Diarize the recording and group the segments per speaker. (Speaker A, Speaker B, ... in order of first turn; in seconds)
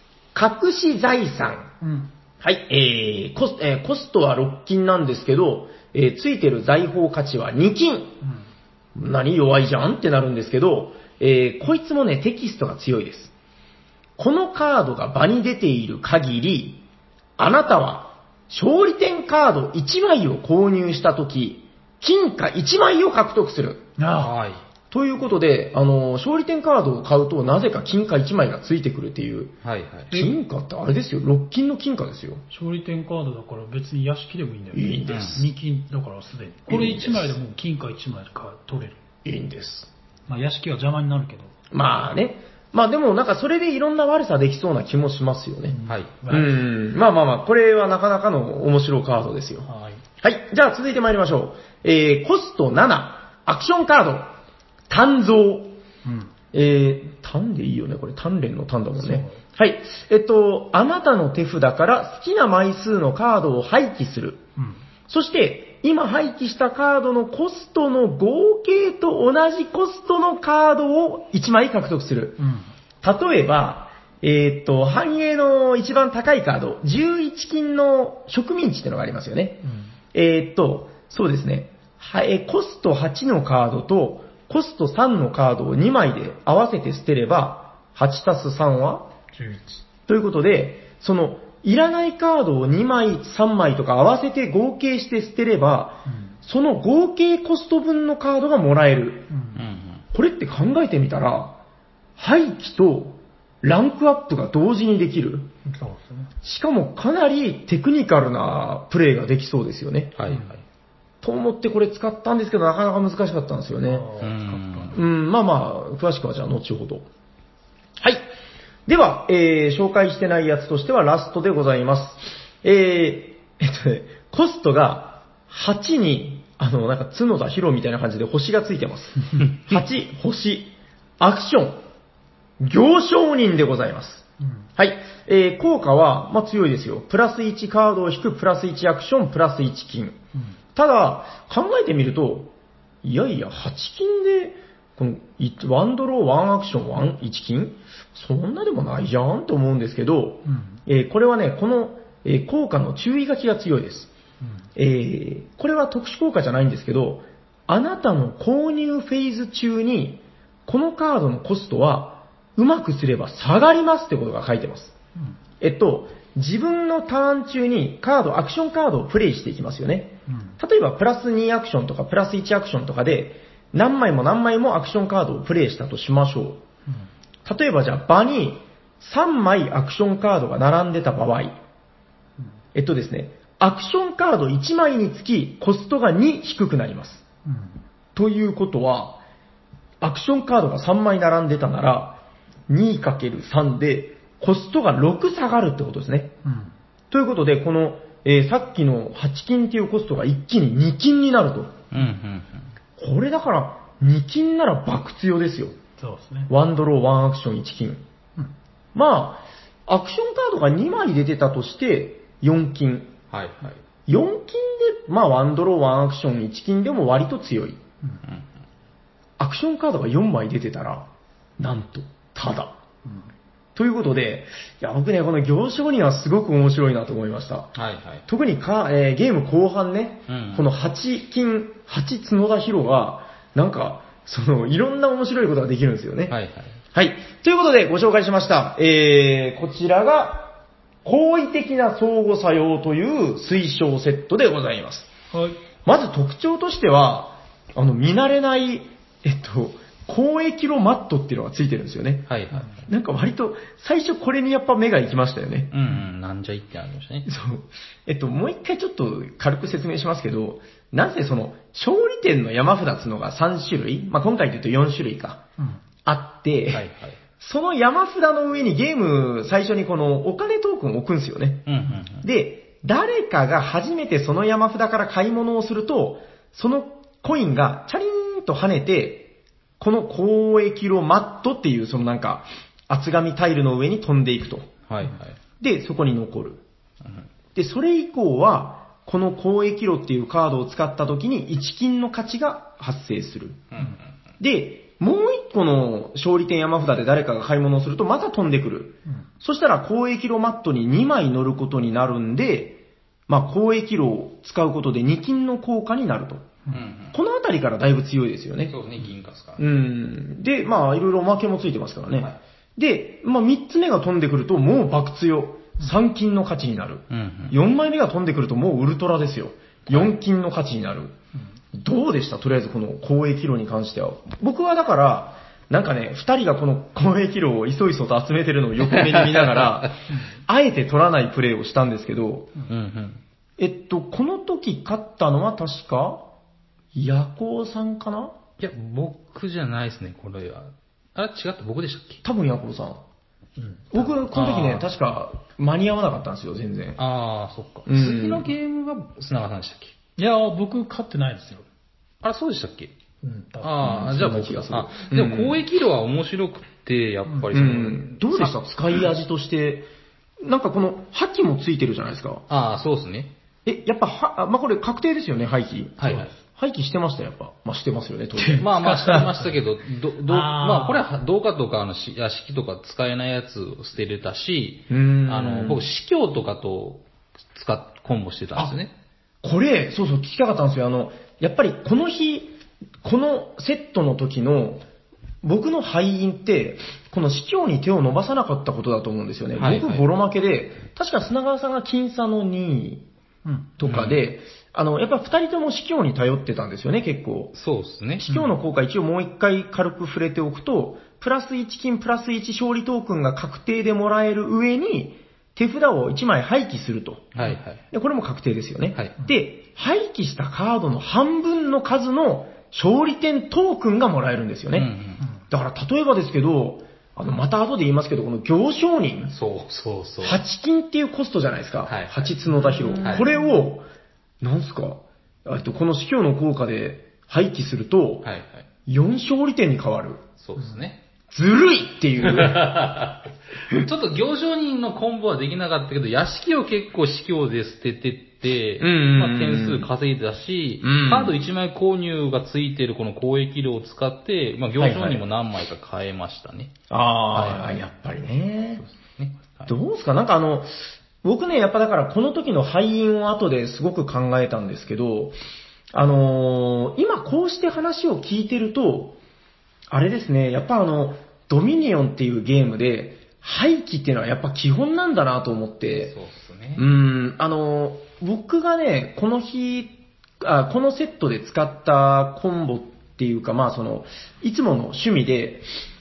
Speaker A: 0.3-1.7, 2.4-8.1, 8.9-13.3, 14.2-16.8, 17.4-23.9, 24.9-29.5, 30.1-32.4, 34.7-35.4, 36.7-37.3, 39.2-39.9, 41.7-49.7, 50.2-54.3, 54.9-55.8, 56.5-64.4, 65.1-72.4, 73.0-89.1, 90.1-99.3, 100.1-101.6, 102.2-105.5, 106.4-110.2, 111.2-114.1, 114.9-117.1, 118.9-131.8, 132.6-134.2, 134.8-140.2, 140.7-154.1, 154.8-164.9, 165.6-176.6, 177.4-181.6, 182.7-187.2, 188.1-189.2, 190.0-196.3, 197.1-201.8, 203.0-205.8, 206.5-208.0, 208.9-213.1, 214.1-217.8, 219.4-221.1, 221.6-222.7, 223.7-227.7, 228.3-236.3, 236.9-245.1, 245.8-252.3, 252.8-255.7, 257.2-265.4, 266.0-266.8, 267.4-271.6, 272.2-284.7, 285.6-286.6, 287.5-293.6, 294.4-306.5, 307.1-308.8, 309.6-321.1, 321.7-332.5, 333.6-336.2, 336.9-338.3, 342.2-343.0, 343.9-347.0, 347.9-348.5, 353.8-355.6, 357.5-359.9, 360.4-362.4, 363.6-368.7, 374.9-375.9, 379.4-384.8, 385.4-393.0, 393.8-397.5, 398.2-407.3, 407.9-414.9, 415.5-419.3, 420.2-423.9, 424.4-428.3, 428.9-430.2, 431.3-432.6, 438.8-439.9, 440.8-441.3, 444.8-445.2, 446.9-448.8, 449.6-455.4, 455.9-459.2, 459.9-466.1, 466.8-475.6
Speaker B: 1.8-2.1, 24.0-24.3, 32.5-39.0, 40.3-41.5, 45.7-46.6, 49.6-50.0, 56.0-56.3, 59.0-59.4, 72.4-72.7, 79.6-79.9, 89.3-89.8, 96.1-96.3, 99.3-99.6, 105.6-106.3, 113.9-115.0, 150.4-150.8, 170.3-170.5, 187.4-187.8, 196.4-196.7, 206.0-206.5, 245.3-245.6, 350.2-351.6, 353.2-353.8, 368.4-369.5, 370.3-371.0, 393.4-393.7, 398.3-398.5
Speaker C: 24.2-24.6, 29.6-30.1, 35.1-35.4, 45.9-46.1, 99.5-100.0, 110.2-110.6, 114.2-115.0, 201.9-202.7, 213.3-213.8, 227.7-228.2, 230.3-230.7, 236.3-236.8, 252.3-252.8, 255.7-257.3, 266.7-267.2, 271.7-272.2, 284.9-285.4, 293.7-294.0, 306.7-307.1, 308.7-309.6, 317.1-317.6, 319.9-320.1, 328.9-329.8, 332.7-333.2, 338.6-342.2, 344.0-344.9, 347.0-349.9, 352.2-352.9, 353.6-358.5, 362.5-363.3, 366.0-366.3, 368.6-377.0, 377.5-378.9, 389.6-390.0, 393.8-394.2, 397.5-398.3, 407.3-407.8, 414.7-415.2, 419.3-420.4, 421.9-422.3, 422.9-423.3, 428.2-428.6, 430.4-431.0, 432.2-446.7, 447.3-447.8, 448.8-449.7, 466.1-466.9